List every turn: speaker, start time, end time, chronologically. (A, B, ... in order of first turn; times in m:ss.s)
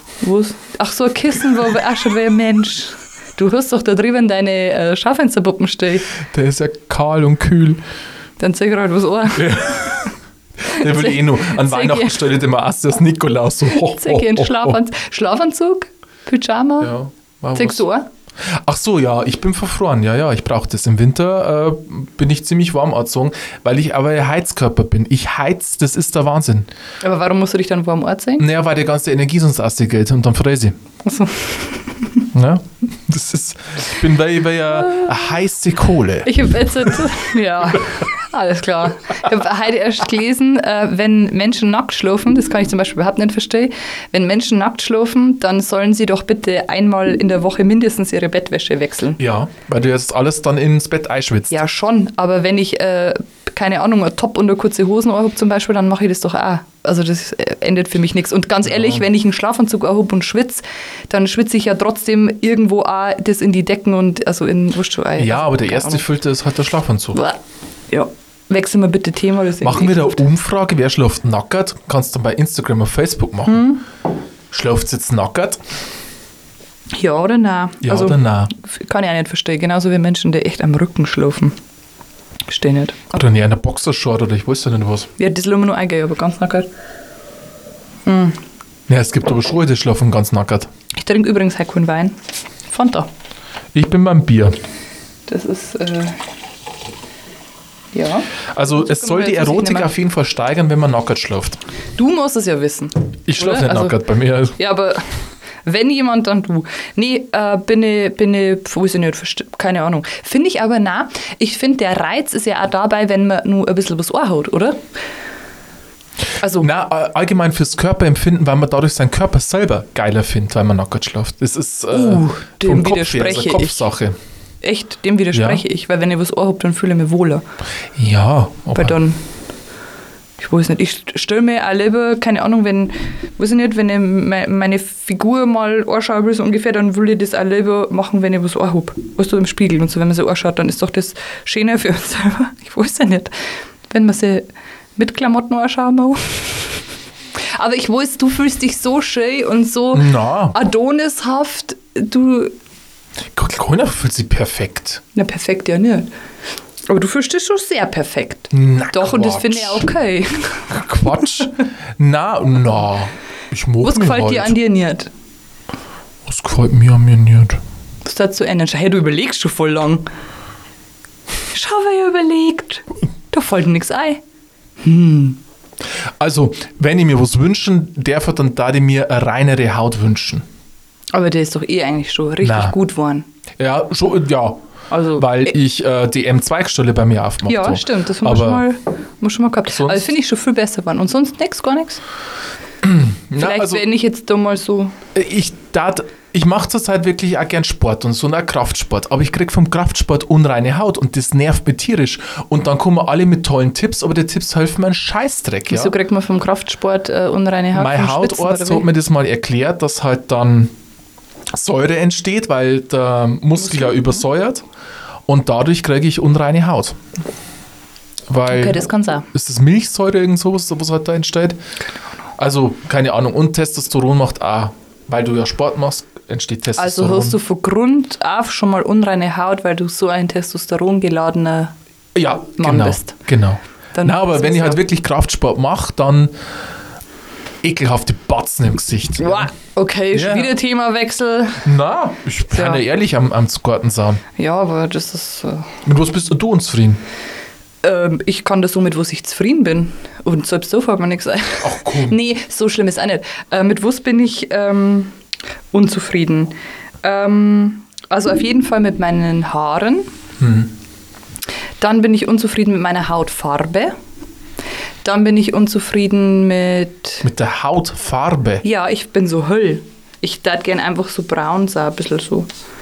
0:00.2-0:06.2 A
0:06.3-0:07.8 B
0:08.4-0:10.0 A
0:09.3-0:10.1 B
0:10.6-0:12.4 A
0:10.7-0:14.8 B
0:13.7-0:17.0 A
0:16.8-0:17.8 B
0:17.5-0:18.1 A
0:18.5-0:26.7 B
0:27.0-0:28.5 A
0:28.4-0:30.7 B
0:31.0-0:32.3 A
0:32.3-0:36.7 B
0:36.2-0:49.2 A
0:49.2-0:51.6 B
0:51.5-1:06.0 A
0:58.7-0:59.0 B
1:05.2-1:07.2 B
1:07.1-1:07.4 A
1:07.9-1:10.2 A
1:09.6-1:13.8 B
1:13.5-1:13.8 A
1:14.5-1:15.6 B
1:16.9-1:21.6 A
1:17.8-1:18.5 B
1:22.5-1:23.2 A
1:23.1-1:25.1 B
1:25.2-1:26.7 A
1:28.1-1:28.4 A
1:28.9-1:30.7 B
1:30.9-1:32.2 A
1:32.7-1:33.1 A
1:33.7-1:34.6 B
1:35.3-1:36.2 A
1:37.9-1:39.9 A
1:38.5-1:41.6 B
1:42.0-1:44.0 A
1:43.3-1:44.6 B
1:44.6-1:54.8 A
1:56.4-1:56.7 A
1:56.6-2:04.2 B
2:01.9-2:03.9 A
2:04.6-2:07.4 A
2:05.3-2:05.6 B
2:08.0-2:09.0 B
2:08.7-2:09.2 A
2:10.4-2:23.3 A
2:23.9-2:26.8 A
2:27.5-2:32.5 A
2:29.9-2:30.6 B
2:33.3-2:35.0 B
2:35.2-2:36.1 A
2:36.9-2:40.8 A
2:38.5-2:39.9 B
2:40.7-2:44.6 B
2:43.8-2:45.1 A
2:46.3-2:47.6 B
2:48.0-2:50.1 A
2:51.5-2:54.2 A
2:54.8-2:55.4 A
2:56.2-3:00.4 B
3:01.1-3:03.3 A
3:02.4-3:02.8 B
3:03.6-3:04.6 B
3:04.9-3:05.5 A
3:05.1-3:08.7 B
3:07.4-3:12.0 A
3:09.7-3:10.1 B
3:12.8-3:13.9 B
3:13.4-3:14.9 A
3:15.2-3:26.0 B
3:25.7-3:28.9 A
3:27.7-3:30.7 B
3:31.5-3:34.6 B
3:33.6-3:34.2 A
3:35.3-3:37.0 B
3:38.3-3:41.6 B
3:38.5-3:39.3 A
3:42.4-3:47.4 B
3:46.8-3:51.8 A
3:52.2-3:56.3 B
3:52.6-3:53.2 A
3:54.0-3:54.8 A
3:57.6-3:59.5 B
3:59.2-4:01.6 A
4:00.1-4:00.5 B
4:01.6-4:04.2 B
4:02.5-4:02.8 A
4:04.4-4:05.8 A
4:05.8-4:07.0 B
4:07.8-4:15.2 A
4:11.6-4:12.2 B
4:15.7-4:20.1 A
4:20.4-4:20.7 B
4:21.8-4:23.9 A
4:25.0-4:27.3 A
4:27.2-4:28.6 B
4:28.6-4:32.5 A